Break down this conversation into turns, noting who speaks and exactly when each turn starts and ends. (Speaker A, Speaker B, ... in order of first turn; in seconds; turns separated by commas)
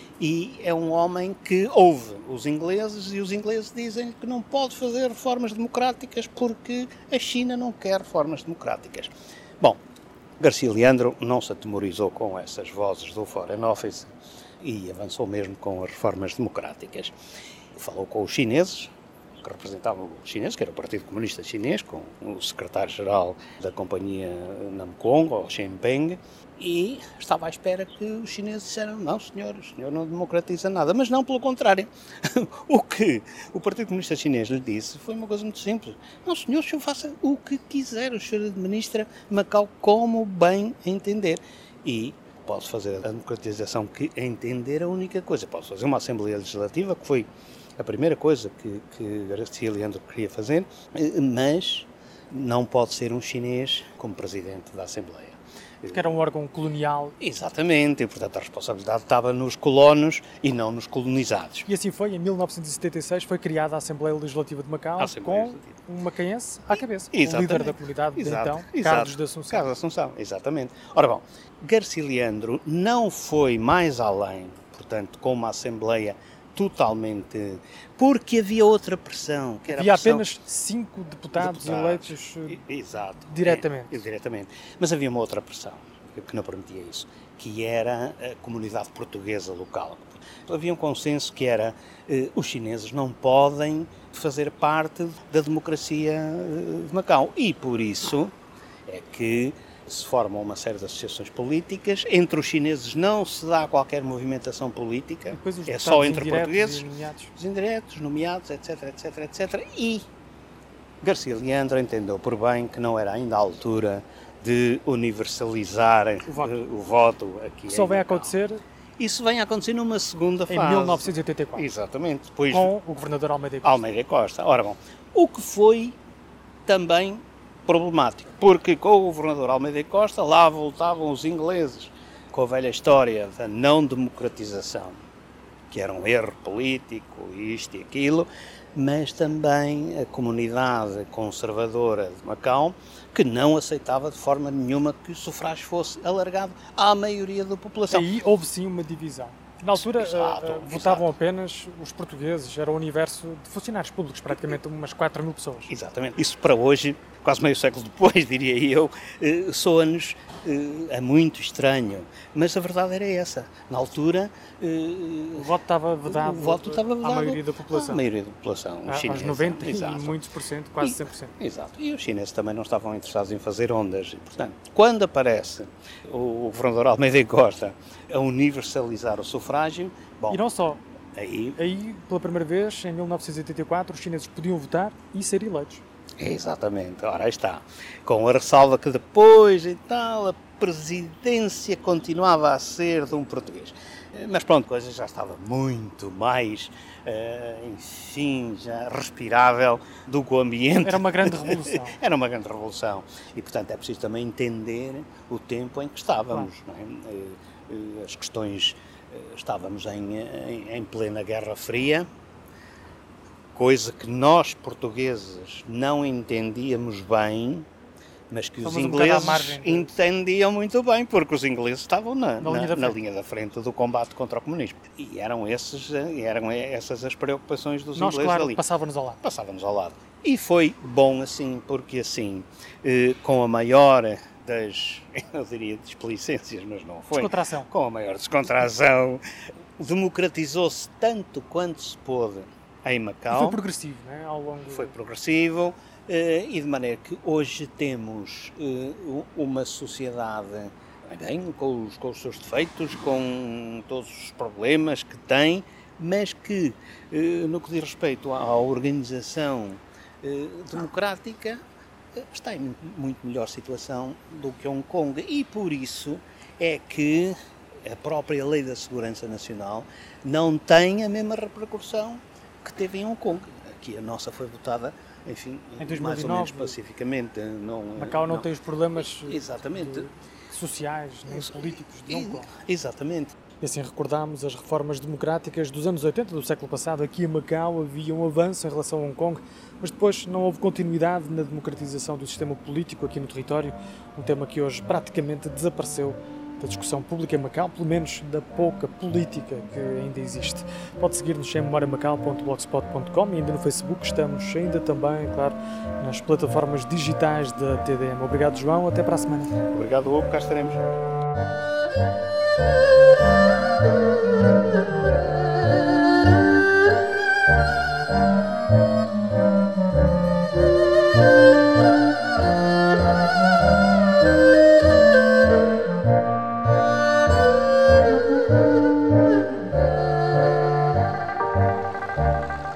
Speaker A: 0.2-9.8, Speaker A: 10.4-17.1, Speaker A: 17.8-56.2, Speaker B: 55.9-57.2, Speaker A: 57.2-61.7, Speaker B: 61.7-69.7, Speaker A: 65.0-65.8, Speaker A: 67.1-80.3, Speaker B: 79.7-82.6, Speaker A: 81.4-98.3, Speaker B: 83.3-84.0, Speaker A: 98.9-110.0, Speaker B: 105.3-107.3, Speaker A: 111.0-118.3, Speaker B: 116.3-116.6, Speaker B: 117.7-118.6, Speaker A: 119.0-122.7, Speaker B: 120.5-121.7, Speaker B: 122.5-123.8, Speaker A: 123.6-126.0, Speaker A: 126.7-135.0, Speaker A: 135.7-148.1, Speaker B: 147.9-155.7, Speaker A: 149.7-151.1, Speaker A: 155.7-165.6, Speaker B: 165.3-168.0, Speaker A: 166.1-170.2, Speaker B: 168.9-171.3, Speaker A: 170.8-180.4, Speaker B: 180.3-180.8, Speaker A: 181.2-181.6, Speaker B: 181.6-185.8, Speaker A: 186.2-212.1, Speaker B: 200.8-202.0, Speaker A: 213.5-217.7, Speaker A: 218.3-228.6, Speaker B: 218.6-219.9, Speaker B: 222.4-223.0, Speaker B: 227.9-229.2, Speaker A: 229.2-239.2, Speaker B: 237.1-237.7, Speaker A: 239.8-243.6, Speaker B: 243.3-244.9, Speaker A: 244.7-261.6, Speaker A: 262.2-280.1, Speaker B: 275.8-276.8, Speaker B: 278.0-282.5, Speaker A: 281.3-283.4, Speaker B: 283.6-309.5, Speaker A: 309.7-310.8